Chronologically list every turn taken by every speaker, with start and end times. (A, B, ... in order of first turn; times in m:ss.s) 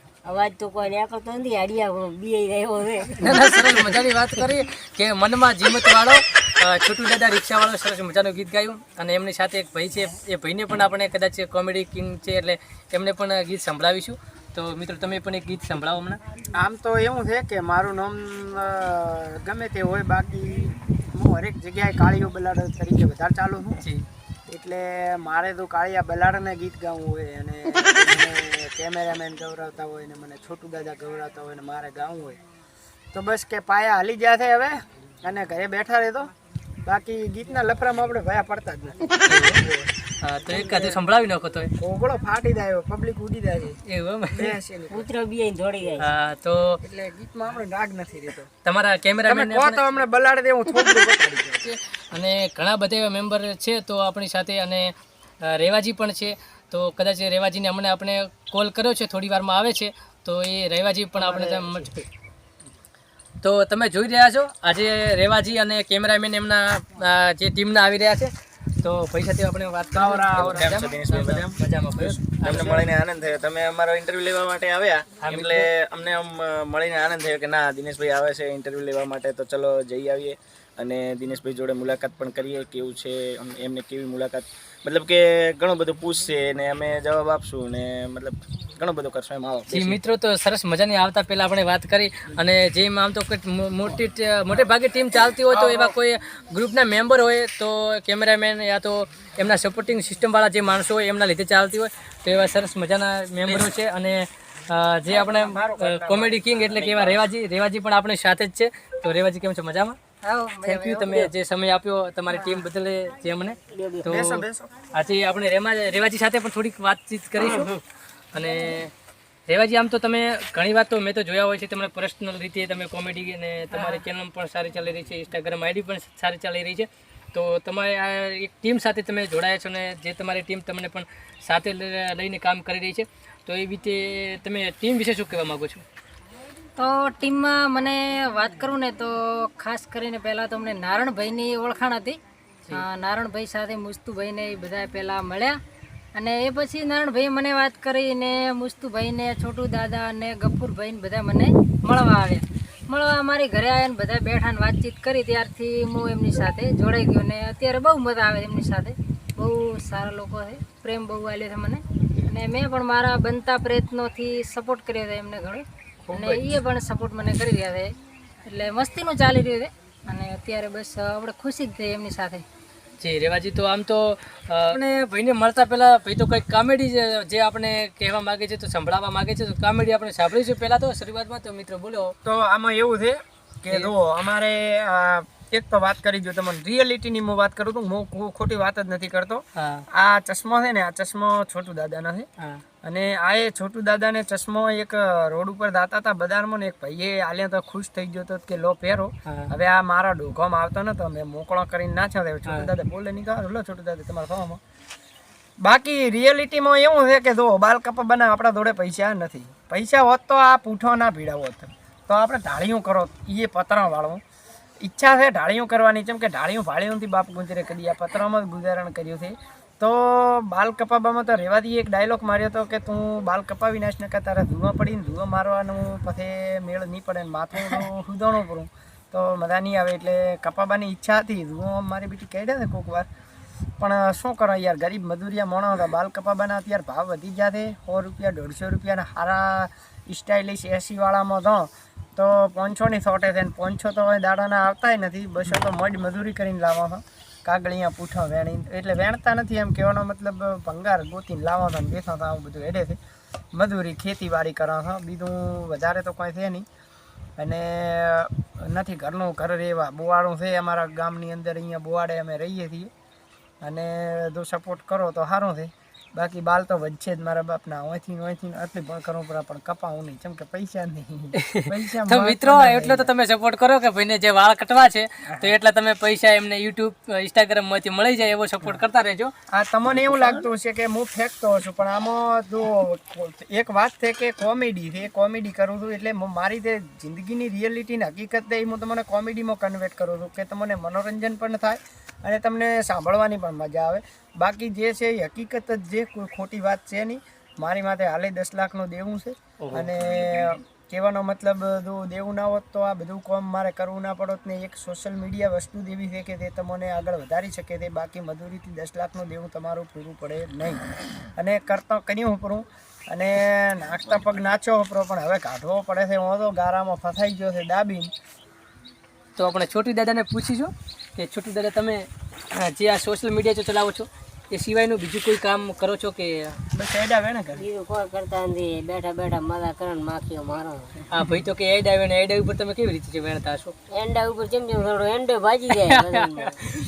0:00.2-0:03.6 A
0:03.2-0:16.2 B
0:16.5-0:23.8 C
0:23.8-0:24.1 B
0:24.5-0:32.4 C
0:33.1-0:36.3 C
0:36.8-0:39.9 C
0:39.3-0:39.6 B
0:40.2-0:41.7 B
0:40.5-0:41.0 C
0:41.8-0:43.8 C
0:43.9-0:44.5 B
0:44.3-0:45.1 C
0:44.9-0:46.1 A
0:46.0-0:46.8 B
0:46.8-0:48.5 C
0:48.6-0:50.0 B
0:49.3-0:51.7 C
0:51.6-0:54.9 B
0:55.4-1:02.0 B
1:01.2-1:01.9 C
1:03.4-1:12.8 B
1:09.9-1:11.4 C
1:10.4-1:11.5 D
1:12.0-1:12.9 C
1:12.4-1:30.0 D
1:15.2-1:15.7 B
1:29.7-1:50.0 B
1:35.5-1:35.9 C
1:45.1-1:47.2 C
1:50.2-1:51.3 E
1:50.6-1:57.8 B
1:52.3-1:52.6 E
1:53.7-1:54.2 A
1:54.1-1:54.7 C
1:57.4-1:57.7 A
1:58.3-1:58.9 B
1:59.5-2:15.8 B
2:16.8-2:22.2 E
2:22.7-2:25.6 E
2:26.1-2:47.9 E
2:46.1-2:46.6 C
2:48.5-2:52.4 E
2:53.0-3:02.2 B
3:02.2-3:09.4 C
3:09.6-3:09.8 B
3:09.9-3:12.3 C
3:12.8-3:24.6 C
3:19.3-3:19.5 B
3:22.5-3:22.7 B
3:25.6-3:34.2 C
3:34.8-3:53.1 C
3:53.8-4:13.0 C
4:13.5-4:16.7 C
4:17.4-4:22.9 C
4:23.6-4:33.1 C
4:31.4-4:39.3 B
4:39.5-5:10.8 C
4:40.0-4:40.4 B
4:59.6-4:59.9 B
5:11.4-5:18.1 C
5:19.4-5:26.6 B
5:26.7-5:27.6 C
5:27.6-5:31.0 A
5:31.1-5:33.8 B
5:33.9-5:36.7 A
5:35.7-5:36.5 B